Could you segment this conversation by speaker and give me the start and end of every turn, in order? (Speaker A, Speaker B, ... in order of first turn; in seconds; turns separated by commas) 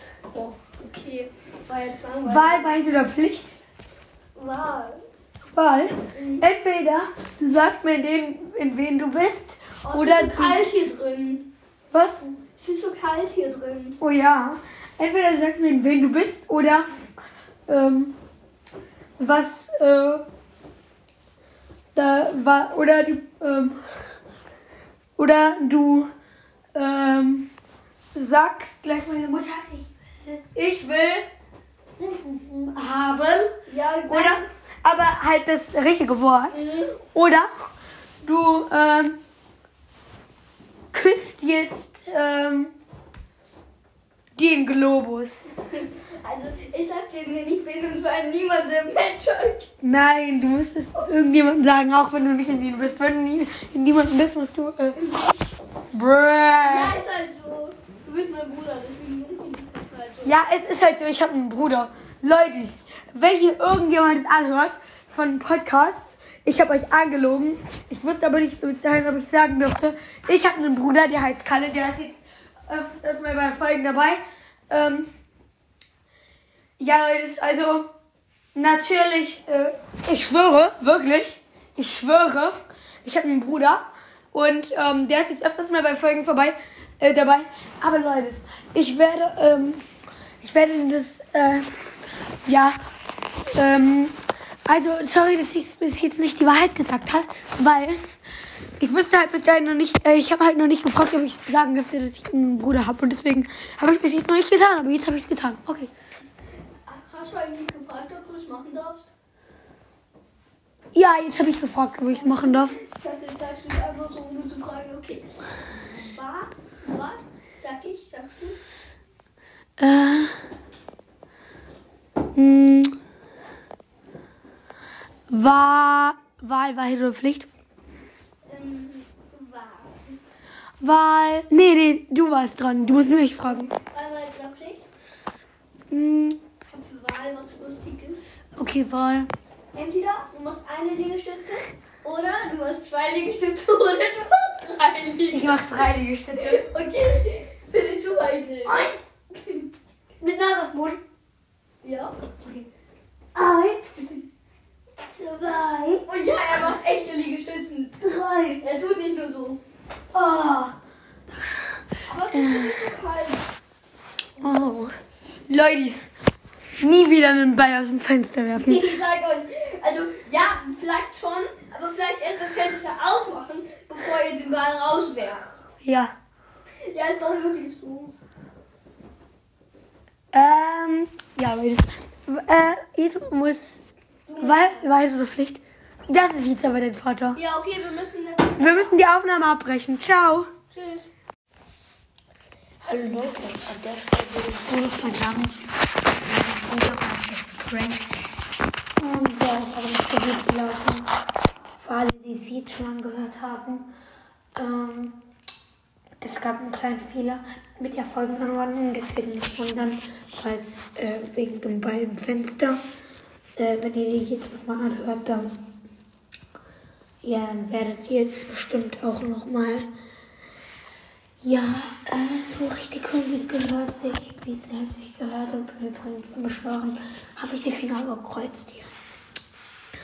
Speaker A: 0.2-2.7, Speaker B: 2.2-3.6, Speaker A: 4.3-5.0, Speaker B: 5.5-10.7, Speaker A: 6.1-6.5, Speaker A: 9.8-11.5, Speaker B: 11.9-12.3, Speaker A: 12.4-14.0, Speaker B: 14.0-16.9, Speaker B: 17.7-18.1, Speaker B: 19.2-20.2, Speaker B: 21.9-23.8, Speaker B: 25.2-26.1, Speaker B: 26.7-27.5, Speaker B: 28.1-31.2, Speaker B: 32.0-33.5, Speaker A: 33.7-34.5, Speaker B: 34.1-37.5, Speaker A: 36.5-37.0, Speaker B: 38.2-39.2, Speaker B: 40.9-42.7, Speaker B: 44.3-45.5, Speaker A: 45.7-49.7, Speaker B: 49.8-55.0, Speaker A: 55.0-55.5, Speaker B: 55.9-57.0, Speaker A: 56.6-60.4, Speaker B: 60.2-75.1, Speaker B: 76.8-77.9, Speaker B: 78.5-89.8, Speaker B: 90.4-92.8, Speaker B: 93.5-98.0, Speaker B: 98.8-105.9, Speaker A: 106.8-109.1, Speaker B: 110.9-112.8, Speaker A: 112.1-115.3, Speaker A: 116.0-118.6, Speaker B: 119.8-120.3, Speaker B: 122.3-122.9, Speaker B: 125.3-127.5, Speaker A: 128.5-130.2, Speaker B: 130.8-133.7, Speaker A: 132.9-134.8, Speaker B: 135.9-136.4, Speaker A: 136.7-138.3, Speaker B: 138.6-139.3, Speaker A: 139.7-149.7, Speaker B: 145.3-146.7, Speaker B: 148.6-149.0, Speaker B: 150.2-151.0, Speaker A: 151.8-152.2, Speaker B: 153.3-154.2, Speaker B: 155.0-156.0, Speaker A: 156.1-158.1, Speaker B: 158.0-158.6, Speaker A: 158.6-159.6, Speaker B: 160.1-160.8, Speaker B: 161.3-162.9, Speaker A: 162.1-163.5, Speaker B: 164.4-164.9, Speaker B: 165.5-166.1, Speaker B: 166.8-169.0, Speaker A: 168.6-175.6, Speaker B: 175.8-176.1, Speaker A: 176.8-178.1, Speaker B: 180.3-183.8, Speaker A: 184.3-184.8, Speaker B: 184.4-187.4, Speaker A: 187.3-189.0, Speaker B: 188.6-190.5, Speaker A: 190.7-191.1, Speaker B: 192.8-198.0, Speaker B: 199.0-201.1, Speaker B: 201.8-203.9, Speaker B: 204.5-205.2, Speaker B: 206.2-212.8, Speaker B: 213.6-215.6, Speaker B: 217.2-219.9, Speaker B: 221.4-228.9